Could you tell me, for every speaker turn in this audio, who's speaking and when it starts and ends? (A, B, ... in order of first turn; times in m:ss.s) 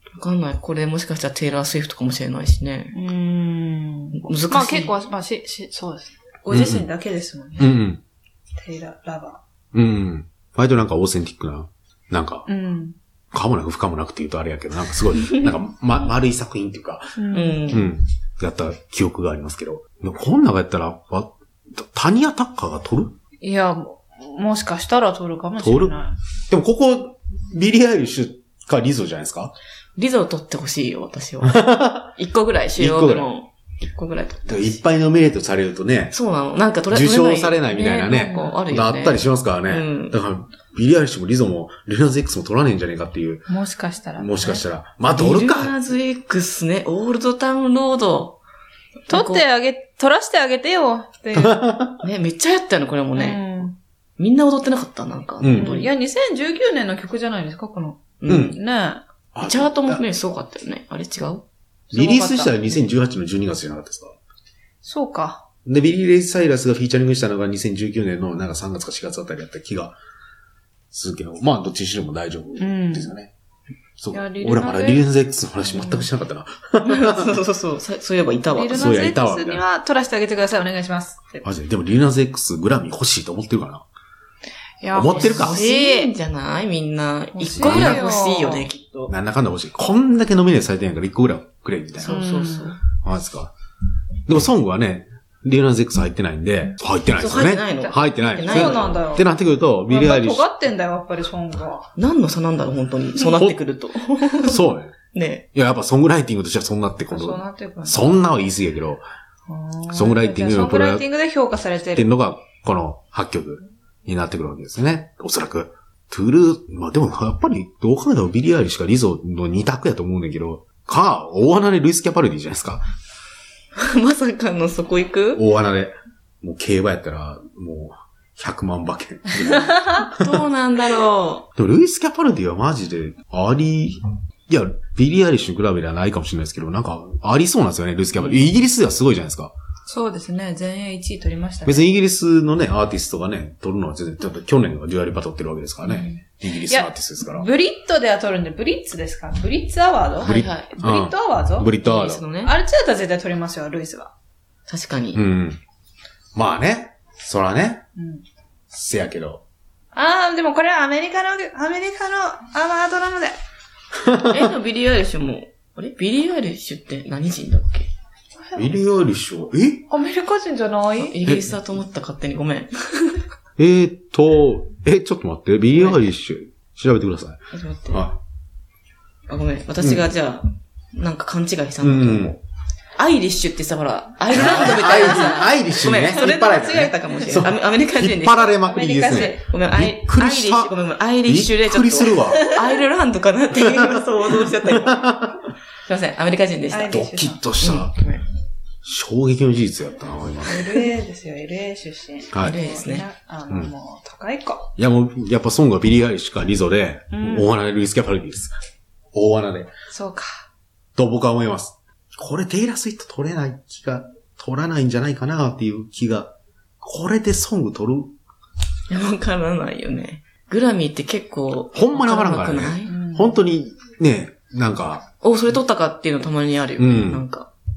0:00.2-0:02.9 A
0:02.9-0:07.8 B
0:04.2-0:04.9 A
0:06.5-0:06.9 C
0:07.6-0:08.0 C
0:08.6-0:09.4 B
0:09.7-0:12.5 C
0:12.5-0:13.0 B
0:13.3-0:17.2 C
0:17.2-0:17.8 B
0:17.3-0:17.9 A
0:17.7-0:23.1 C
0:23.4-0:26.1 B
0:25.6-0:25.9 C
0:26.5-0:29.5 C
0:30.0-0:34.8 A
0:31.4-0:32.1 C
0:32.8-0:33.3 C
0:34.5-0:36.1 C
0:36.1-0:40.2 A
0:36.9-0:43.5 C
0:38.2-0:38.6 B
0:43.5-0:44.6 B
0:44.2-0:45.8 C
0:45.1-0:48.4 A
0:49.1-0:49.4 A
0:49.1-0:51.6 B
0:51.3-0:52.0 C
0:52.0-0:53.4 A
0:53.1-0:53.7 B
0:54.2-0:55.9 A
0:55.4-0:55.8 C
0:55.5-0:59.0 B
0:58.2-0:58.6 A
0:58.3-0:58.6 C
0:59.3-1:00.0 C
0:59.4-1:01.4 A
1:01.9-1:02.9 B
1:01.9-1:04.1 C
1:04.8-1:05.4 B
1:05.6-1:10.0 C
1:10.9-1:13.3 C
1:12.6-1:13.1 B
1:14.0-1:17.4 C
1:14.1-1:15.0 B
1:15.6-1:16.1 B
1:16.8-1:19.0 A
1:18.5-1:21.4 B
1:18.7-1:19.6 C
1:21.4-1:23.8 C
1:24.8-1:26.1 B
1:24.9-1:25.6 C
1:25.1-1:29.1 A
1:27.3-1:28.7 B
1:27.6-1:28.0 C
1:29.1-1:32.2 C
1:32.0-1:32.8 A
1:32.0-1:32.7 B
1:33.0-1:33.5 C
1:34.3-1:40.5 C
1:37.2-1:38.9 A
1:37.8-1:39.3 B
1:39.9-1:41.9 B
1:42.0-1:44.6 A
1:43.2-1:43.6 C
1:44.4-1:44.9 C
1:45.1-1:45.4 A
1:45.5-1:49.0 C
1:47.1-1:48.1 B
1:49.5-1:52.1 B
1:49.9-1:51.0 C
1:51.9-2:02.8 C
2:03.8-2:05.4 A
2:05.3-2:10.4 C
2:10.1-2:11.5 A
2:11.6-2:19.5 C
2:19.9-2:21.9 B
2:21.6-2:27.5 C
2:25.8-2:31.7 B
2:30.2-2:32.2 C
2:30.2-2:30.7 A
2:31.8-2:32.5 A
2:32.4-2:34.1 B
2:34.7-2:35.2 A
2:35.1-2:35.6 C
2:36.3-2:37.8 C
2:38.0-2:38.2 B
2:38.7-2:39.4 C
2:39.9-2:43.4 B
2:44.0-2:44.5 C
2:44.2-2:47.9 A
2:48.5-2:48.8 B
2:48.6-2:49.8 C
2:49.9-2:51.2 B
2:51.0-2:53.2 A
2:53.6-2:58.2 C
2:55.7-2:56.0 A
2:57.5-2:58.1 A
2:59.3-3:02.4 A
2:59.8-3:00.1 C
3:01.8-3:02.4 C
3:03.0-3:15.1 A
3:04.3-3:12.5 C
3:04.6-3:05.4 B
3:06.1-3:07.4 B
3:08.6-3:09.4 B
3:13.5-3:15.4 C
3:15.8-3:17.0 A
3:16.7-3:17.4 B
3:16.9-3:18.0 C
3:17.6-3:18.2 A
3:18.8-3:20.8 C
3:20.4-3:24.7 B
3:22.3-3:22.6 C
3:22.4-3:23.0 A
3:24.8-3:28.5 C
3:27.1-3:27.5 B
3:29.1-3:29.7 C
3:29.9-3:30.4 B
3:31.0-3:38.1 C
3:38.9-3:42.9 A
3:41.7-3:45.1 C
3:42.9-3:43.4 B
3:45.2-3:47.5 A
3:46.8-3:47.2 C